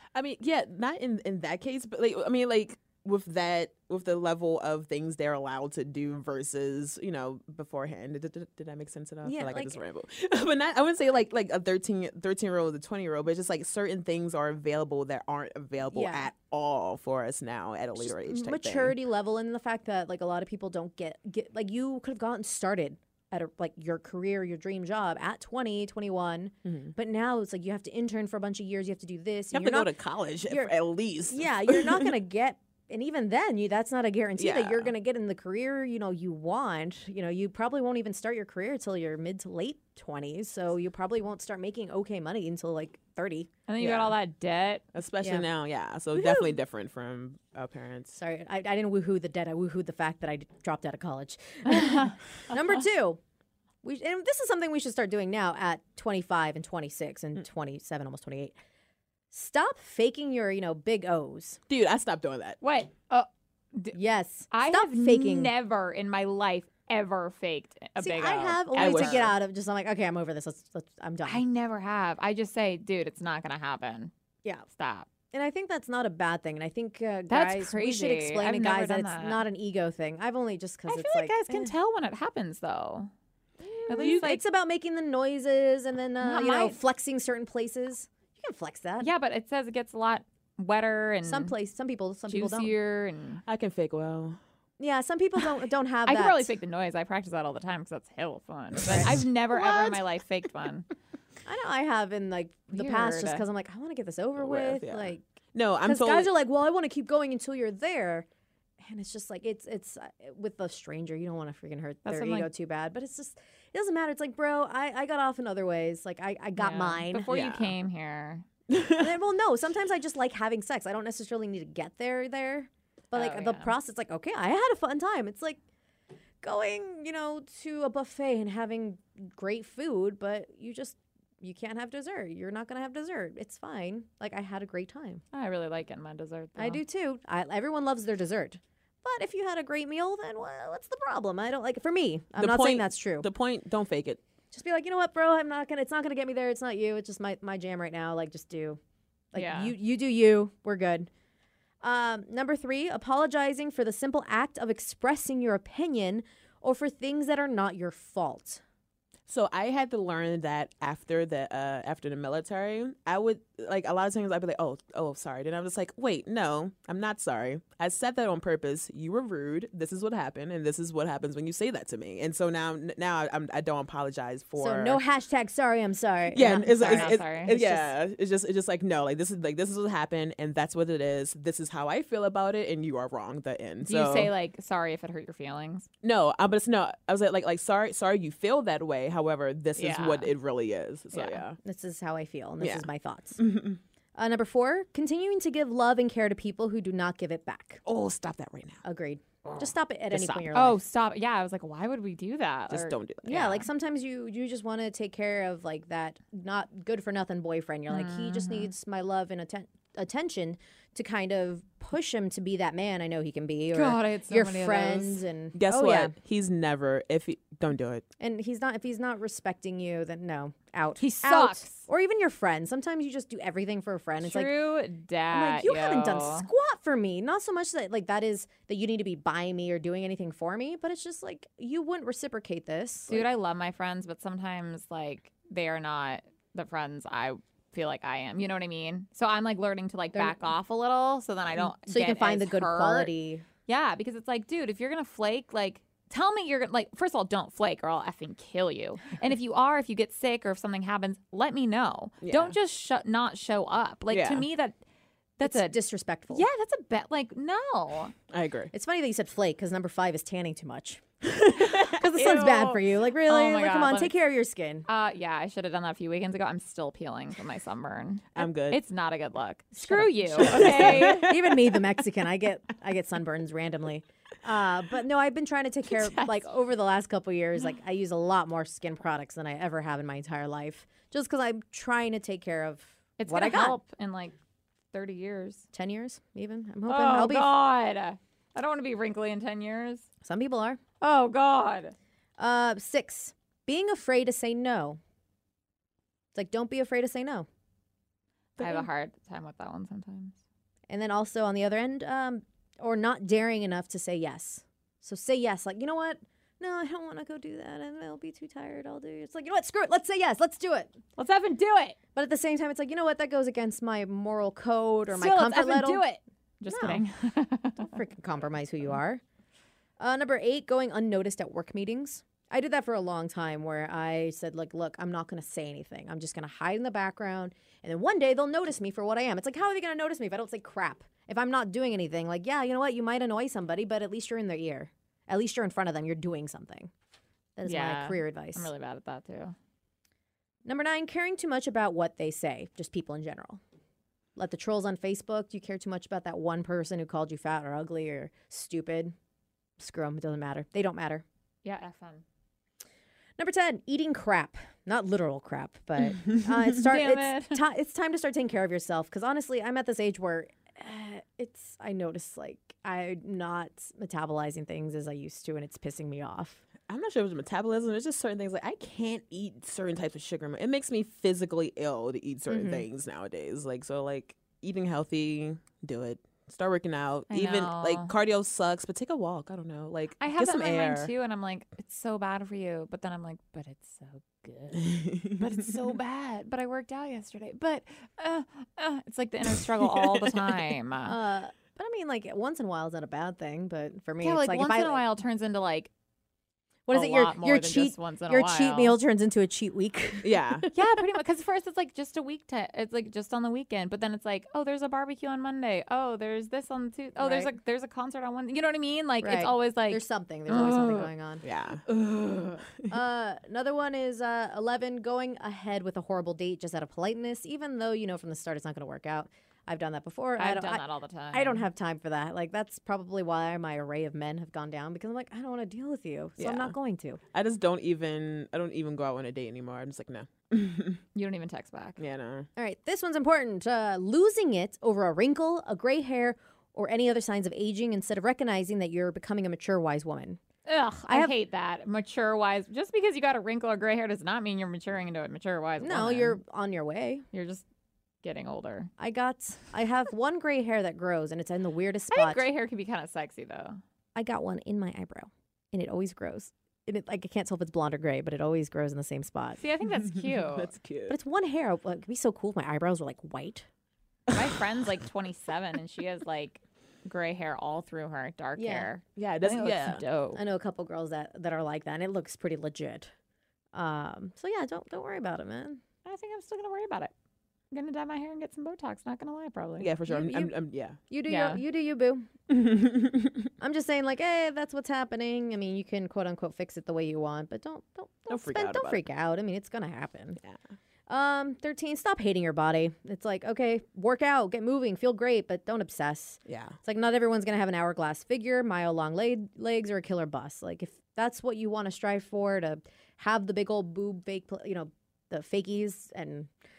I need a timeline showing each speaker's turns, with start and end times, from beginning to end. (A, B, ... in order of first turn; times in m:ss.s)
0:00.2-0:19.0 A
0:09.2-0:09.8 B
0:15.9-0:16.3 B
0:18.0-0:29.9 B
0:26.7-0:26.9 A
0:29.5-0:32.1 A
0:30.5-0:43.5 B
0:34.4-0:34.9 A
0:43.7-0:44.8 C
0:43.8-0:44.1 A
0:44.9-0:48.2 A
0:45.2-0:45.5 B
0:46.2-0:46.4 B
0:48.2-0:53.2 B
0:51.7-0:52.2 C
0:53.8-0:58.6 B
0:59.3-1:01.6 B
1:01.7-1:02.6 A
1:02.6-1:04.0 C
1:03.9-1:05.5 B
1:04.5-1:09.3 C
1:08.0-1:11.4 B
1:08.8-1:09.4 A
1:11.2-1:14.1 C
1:14.8-1:15.1 C
1:15.3-1:21.7 B
1:17.3-1:19.4 C
1:20.9-1:23.1 C
1:23.6-1:29.1 B
1:23.9-1:24.4 C
1:26.2-1:26.8 C
1:29.0-1:31.5 C
1:31.2-1:32.7 B
1:32.3-1:33.4 C
1:33.5-1:34.4 A
1:34.8-1:36.5 B
1:36.0-1:40.9 C
1:38.8-1:39.1 B
1:39.1-1:39.9 A
1:41.4-1:45.2 B
1:42.7-1:43.4 C
1:44.4-1:46.3 A
1:45.8-1:48.3 B
1:48.8-1:57.3 B
1:52.0-1:52.5 C
1:56.6-1:58.5 C
1:57.3-1:57.7 A
1:58.7-1:59.2 A
1:59.0-2:05.6 B
2:03.1-2:03.8 C
2:06.4-2:15.2 B
2:15.3-2:16.8 C
2:16.6-2:23.3 B
2:22.4-2:24.2 A
2:24.5-2:28.8 B
2:29.3-2:31.1 B
2:29.3-2:29.7 C
2:31.8-2:38.6 B
2:39.3-2:55.0 A
2:54.6-2:57.9 B
2:56.3-3:04.3 A
2:56.4-2:57.6 C
3:03.8-3:05.9 C
3:06.0-3:11.6 A
3:09.8-3:10.3 C
3:11.1-3:11.4 C
3:11.6-3:13.4 B
3:12.6-3:13.8 A
3:14.2-3:17.8 B
3:17.9-3:18.8 A
3:18.8-3:20.8 B
3:20.1-3:20.5 A
3:20.5-3:23.7 C
3:22.7-3:23.4 A
3:23.3-3:36.1 B
3:27.9-3:28.7 C
3:33.7-3:35.2 C
3:35.6-3:38.1 A
3:38.2-3:44.6 B
3:41.0-3:41.9 C
3:44.2-3:46.5 C
3:45.3-3:53.3 B
3:53.1-4:03.1 C
4:01.9-4:03.4 B
4:03.7-4:14.8 C
4:12.2-4:12.5 A
4:14.1-4:14.5 A
4:15.4-4:15.8 C
4:15.4-4:16.4 B
4:16.3-4:18.1 C
4:18.3-4:18.7 A
4:18.7-4:21.0 B
4:21.2-4:22.0 A
4:21.7-4:24.9 B
4:22.2-4:24.1 C
4:24.9-4:31.3 C
4:28.4-4:28.8 A
4:29.8-4:43.8 B
4:30.4-4:31.8 A
4:36.0-4:36.3 C
4:43.2-4:44.4 C
4:44.9-4:45.7 C
4:45.7-4:47.5 B
4:46.9-4:50.1 C
4:50.2-4:50.8 B
4:51.0-4:51.9 C
4:52.4-4:55.0 B
4:56.3-4:57.5 B
4:58.6-4:58.9 B
4:58.6-5:00.4 C
5:00.9-5:11.0 B
5:11.2-5:12.0 C
5:12.2-5:16.1 B
5:15.1-5:18.0 C
5:16.7-5:17.0 B
5:17.8-5:19.2 B
5:20.0-5:36.9 B
5:37.6-5:38.7 B
5:37.6-5:39.6 C
5:40.6-5:43.6 B
5:44.4-5:49.2 B
5:49.8-5:51.2 B
5:51.6-5:52.2 C
5:53.4-6:06.6 B
5:56.8-5:57.6 C
6:06.8-6:21.1 A
6:12.5-6:12.8 B
6:17.3-6:18.1 C
6:20.2-6:31.2 C
6:24.9-6:25.4 A
6:29.6-6:30.4 A
6:31.1-6:35.0 B
6:34.2-6:35.9 C
6:36.9-6:41.2 B
6:36.9-6:39.0 C
6:40.2-6:40.7 A
6:40.7-6:51.1 C
6:47.2-6:47.5 B
6:49.2-6:51.5 B
6:51.4-6:52.9 A
6:52.8-7:07.2 B
7:00.4-7:01.7 C
7:06.4-7:06.8 A
7:07.3-7:11.0 A
7:11.2-7:12.0 C
7:12.0-7:12.5 A
7:12.6-7:20.4 B
7:20.7-7:26.4 C
7:21.1-7:21.3 B
7:25.8-7:27.3 B
7:27.3-7:27.6 C
7:28.2-7:28.9 C
7:29.0-7:32.4 B
7:32.1-7:33.8 C
7:34.2-7:39.6 B
7:39.6-7:40.7 C
7:40.3-7:41.2 A
7:41.1-7:43.7 B
7:44.3-7:50.4 C
7:48.6-7:48.9 B
7:49.2-7:50.0 A
7:50.4-7:53.1 B
7:53.7-7:55.8 B
7:56.0-7:57.1 C
7:57.7-7:59.9 C
7:59.8-8:01.0 A
8:00.1-8:00.5 B
8:01.1-8:02.3 B
8:01.3-8:01.6 C
8:02.5-8:03.5 A
8:03.6-8:10.4 B
8:08.3-8:09.0 A
8:11.1-8:26.5 B
8:16.5-8:16.8 A